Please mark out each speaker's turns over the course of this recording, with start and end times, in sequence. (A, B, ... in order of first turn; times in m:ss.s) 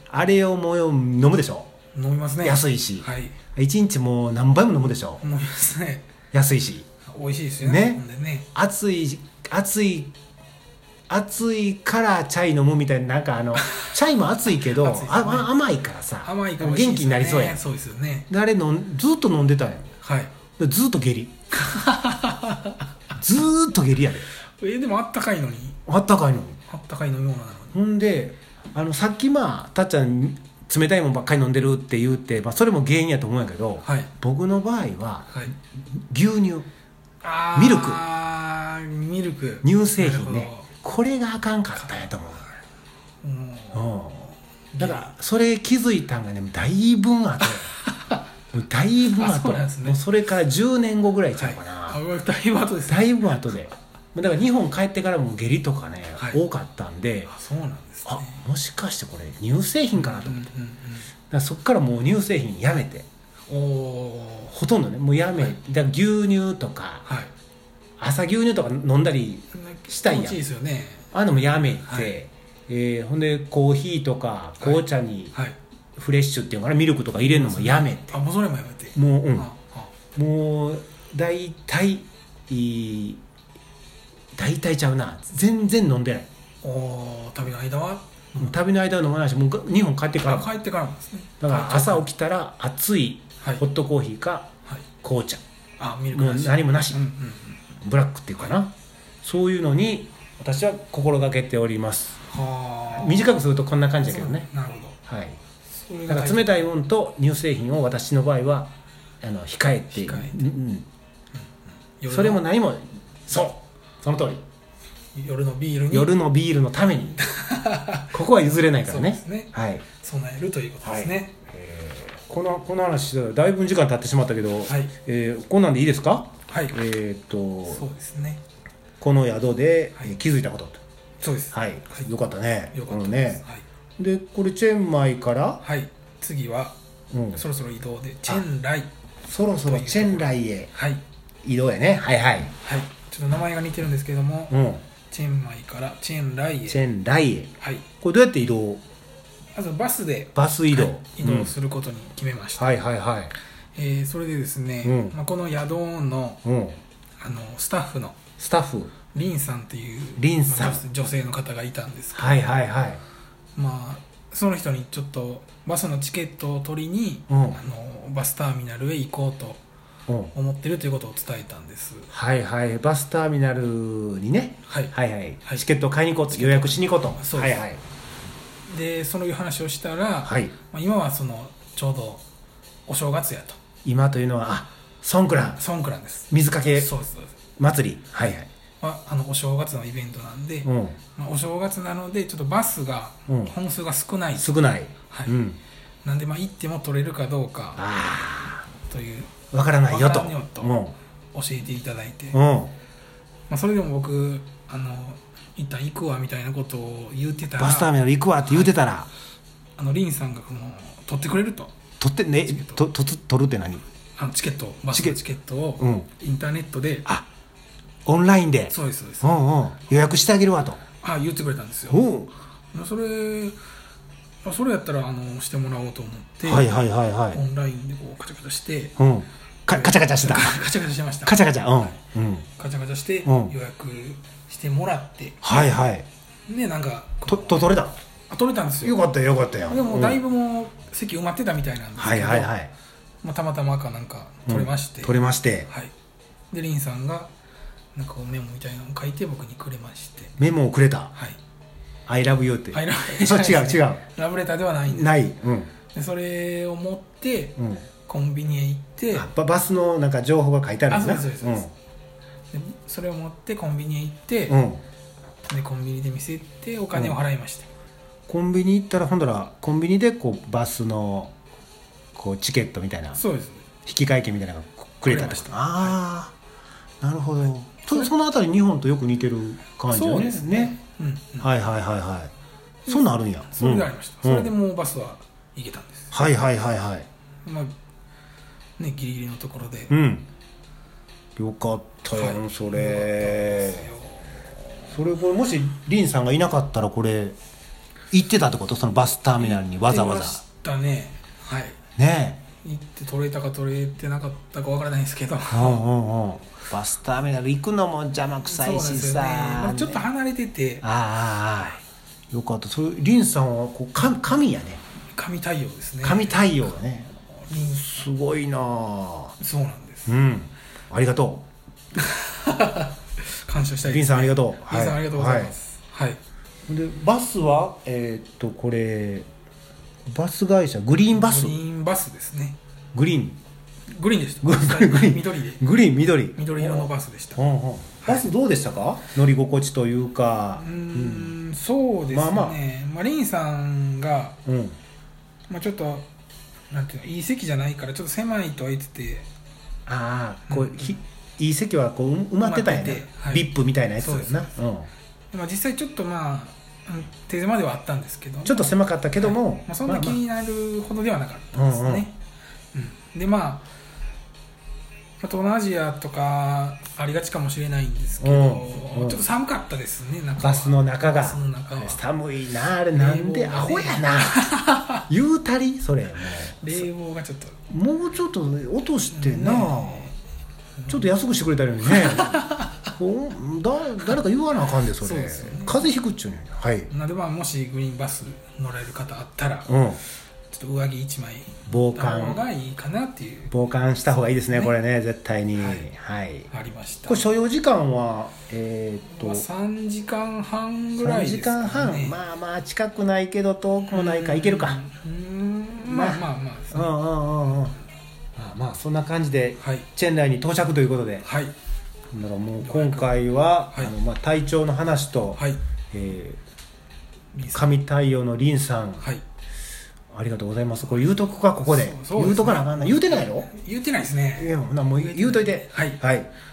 0:00.1-0:01.7 A
0:01.9-0:03.4 B
0:02.4-0:05.2 A
0:05.2-0:06.1 B
0:06.3-0:06.8 A
0:07.1-0:08.5 B
0:07.6-0:08.0 A
0:08.5-0:10.1 A
0:11.1-0:17.6 A
0:14.7-0:15.5 B
0:16.2-0:18.3 B
0:18.3-0:19.9 A
0:20.0-0:20.3 B
0:20.6-0:21.3 A
0:21.5-0:22.8 B
0:23.2-0:24.2 A
0:24.6-0:25.8 B
0:25.8-0:26.6 A
0:26.7-0:27.8 B
0:27.7-0:36.7 A
0:33.8-0:34.1 B
0:37.2-0:40.7 B
0:37.5-0:38.0 A
0:39.6-0:42.5 A
0:41.8-0:42.1 B
0:43.2-0:43.9 B
0:43.7-0:47.7 A
0:44.7-0:45.1 B
0:47.4-0:48.2 B
0:48.5-0:52.0 A
0:49.2-0:50.0 B
0:51.4-0:53.5 B
0:52.9-0:57.3 A
0:57.3-0:58.4 B
0:58.0-1:00.5 A
0:59.9-1:01.1 B
1:01.3-1:03.0 A
1:03.5-1:04.5 B
1:04.5-1:07.1 A
1:07.0-1:07.3 B
1:08.0-1:10.4 A
1:09.5-1:11.0 B
1:11.1-1:15.3 A
1:11.8-1:12.1 B
1:14.6-1:15.6 B
1:16.0-1:18.2 A
1:17.2-1:19.9 B
1:18.9-1:19.5 A
1:20.1-1:23.2 A
1:24.4-1:26.3 A
1:26.6-1:28.5 B
1:28.4-1:30.5 A
1:30.2-1:32.1 B
1:31.4-1:34.5 A
1:35.0-1:35.4 A
1:35.8-1:37.7 B
1:36.1-1:37.0 A
1:37.8-1:38.7 A
1:39.2-1:42.2 A
1:42.3-1:43.4 B
1:42.9-1:44.5 A
1:44.0-1:45.0 B
1:45.1-1:45.4 A
1:45.7-1:46.5 B
1:46.1-1:48.7 A
1:49.2-1:50.8 A
1:49.9-1:50.5 B
1:52.0-1:52.4 B
1:52.1-1:54.4 A
1:55.1-1:56.1 B
1:55.9-1:57.2 A
1:57.3-1:58.1 B
1:58.1-1:59.8 A
1:58.8-2:01.4 B
2:00.8-2:07.8 A
2:04.6-2:04.9 B
2:06.5-2:06.8 B
2:07.7-2:08.4 B
2:09.0-2:10.8 A
2:11.2-2:12.1 B
2:11.5-2:13.4 A
2:12.7-2:13.6 B
2:14.0-2:15.6 A
2:15.6-2:16.8 B
2:17.1-2:17.4 A
2:17.3-2:18.9 B
2:19.2-2:20.7 A
2:19.6-2:21.0 B
2:21.4-2:22.5 A
2:22.6-2:24.6 B
2:24.5-2:24.8 A
2:25.1-2:26.8 B
2:26.7-2:28.8 A
2:27.6-2:27.8 B
2:29.5-2:32.8 B
2:30.3-2:31.5 A
2:32.6-2:33.3 A
2:33.8-2:36.4 B
2:34.8-2:35.2 A
2:36.4-2:36.8 A
2:37.2-2:38.2 B
2:38.4-2:38.9 A
2:39.1-2:42.5 B
2:40.2-2:40.8 A
2:42.1-2:43.0 A
2:43.6-2:49.6 B
2:47.3-2:47.6 A
2:50.1-2:50.3 A
2:50.3-2:52.1 B
2:52.1-2:57.8 A
2:54.7-2:54.9 B
2:56.3-2:57.6 B
2:58.7-3:02.2 B
3:00.2-3:00.5 A
3:02.9-3:03.6 B
3:03.8-3:05.6 A
3:05.6-3:07.3 B
3:06.3-3:06.9 A
3:07.6-3:08.5 A
3:08.8-3:14.6 B
3:10.6-3:11.0 A
3:13.3-3:13.5 A
3:14.4-3:15.6 A
3:15.1-3:15.3 B
3:16.0-3:17.8 B
3:17.8-3:18.6 A
3:18.9-3:19.3 B
3:19.5-3:20.9 A
3:19.8-3:20.7 B
3:21.3-3:22.4 B
3:22.3-3:22.7 A
3:23.5-3:28.7 B
3:27.6-3:29.1 A
3:29.8-3:31.8 B
3:32.0-3:33.8 A
3:32.5-3:32.8 B
3:34.2-3:37.1 B
3:34.9-3:35.2 A
3:35.8-3:36.1 A
3:38.0-3:40.8 A
3:38.7-3:39.3 B
3:41.0-3:42.1 B
3:41.9-3:42.3 A
3:42.7-3:43.6 B
3:44.4-3:49.0 B
3:46.4-3:47.4 A
3:49.0-3:50.6 A
3:49.7-3:51.5 B
3:51.2-3:52.5 A
3:52.6-3:55.7 B
3:53.2-3:53.5 A
3:55.4-3:56.0 A
3:56.5-3:57.7 B
3:57.3-3:58.0 A
3:58.3-3:59.0 B
3:58.8-4:00.2 A
3:59.7-4:02.5 B
4:02.0-4:02.7 A
4:03.2-4:05.9 B
4:04.4-4:05.7 A
4:06.5-4:07.3 B
4:07.9-4:10.3 B
4:10.4-4:11.1 A
4:12.1-4:14.0 A
4:12.7-4:15.2 B
4:14.8-4:15.7 A
4:15.9-4:19.3 B
4:17.6-4:17.8 A
4:19.1-4:21.7 A
4:20.9-4:21.7 B
4:22.5-4:24.6 B
4:24.5-4:24.8 A
4:25.5-4:27.7 B
4:26.9-4:27.2 A
4:28.3-4:31.3 A
4:32.1-4:33.2 A
4:33.1-4:33.7 B
4:33.8-4:36.3 A
4:35.0-4:36.0 B
4:37.0-4:40.8 A
4:39.9-4:41.5 B
4:41.4-4:42.3 A
4:42.8-4:44.5 A
4:42.9-4:46.3 B
4:46.1-4:47.1 A
4:47.4-4:47.7 B
4:48.8-4:50.0 B
4:49.9-4:50.2 A
4:51.4-4:53.9 A
4:52.1-4:54.9 B
4:54.9-4:57.4 A
4:58.1-5:00.4 A
4:59.4-5:01.8 B
5:02.0-5:02.4 A
5:02.6-5:05.8 B
5:05.5-5:10.0 A
5:08.4-5:10.8 B
5:10.8-5:14.8 A
5:15.1-5:16.5 B
5:16.0-5:17.1 A
5:17.2-5:17.8 B
5:17.6-5:19.3 A
5:19.4-5:20.2 B
5:20.1-5:21.4 A
5:22.0-5:26.2 B
5:23.8-5:25.5 A
5:26.7-5:29.2 A
5:30.0-5:31.6 A
5:31.1-5:32.6 B
5:32.9-5:33.4 A
5:33.9-5:35.6 B
5:34.4-5:41.3 A
5:36.3-5:37.4 B
5:38.0-5:38.3 B
5:40.5-5:44.4 B
5:42.1-5:42.6 A
5:44.4-5:44.8 A
5:45.5-5:46.1 B
5:46.7-5:49.3 B
5:49.9-5:54.9 A
5:50.5-5:51.0 B
5:52.4-5:53.5 B
5:54.0-5:54.5 B
5:55.3-6:02.2 B
5:58.4-6:00.2 A
6:01.5-6:02.1 A
6:02.7-6:03.6 B
6:05.2-6:12.0 B
6:08.2-6:09.3 A
6:10.4-6:14.5 A
6:12.9-6:15.0 B
6:15.1-6:16.8 A
6:16.6-6:17.6 B
6:17.7-6:20.1 A
6:19.1-6:20.1 B
6:20.8-6:21.1 B
6:20.9-6:22.4 A
6:21.8-6:22.9 B
6:23.0-6:26.9 A
6:24.9-6:25.9 B
6:26.9-6:29.7 B
6:29.7-6:30.0 A
6:30.5-6:33.5 B
6:31.7-6:32.4 A
6:33.5-6:36.5 A
6:35.6-6:35.9 B
6:36.5-6:37.2 B
6:37.1-6:39.4 A
6:39.1-6:42.2 B
6:41.0-6:44.8 A
6:43.9-6:47.7 B
6:45.8-6:47.7 A
6:48.4-6:51.2 A
6:49.6-6:49.9 B
6:51.2-6:51.5 B
6:52.1-6:56.4 A
6:52.6-6:53.2 B
6:55.3-6:55.6 B
6:57.3-6:57.7 B
6:57.5-6:59.0 A
7:00.1-7:03.5 A
7:01.6-7:06.0 B
7:04.4-7:06.3 A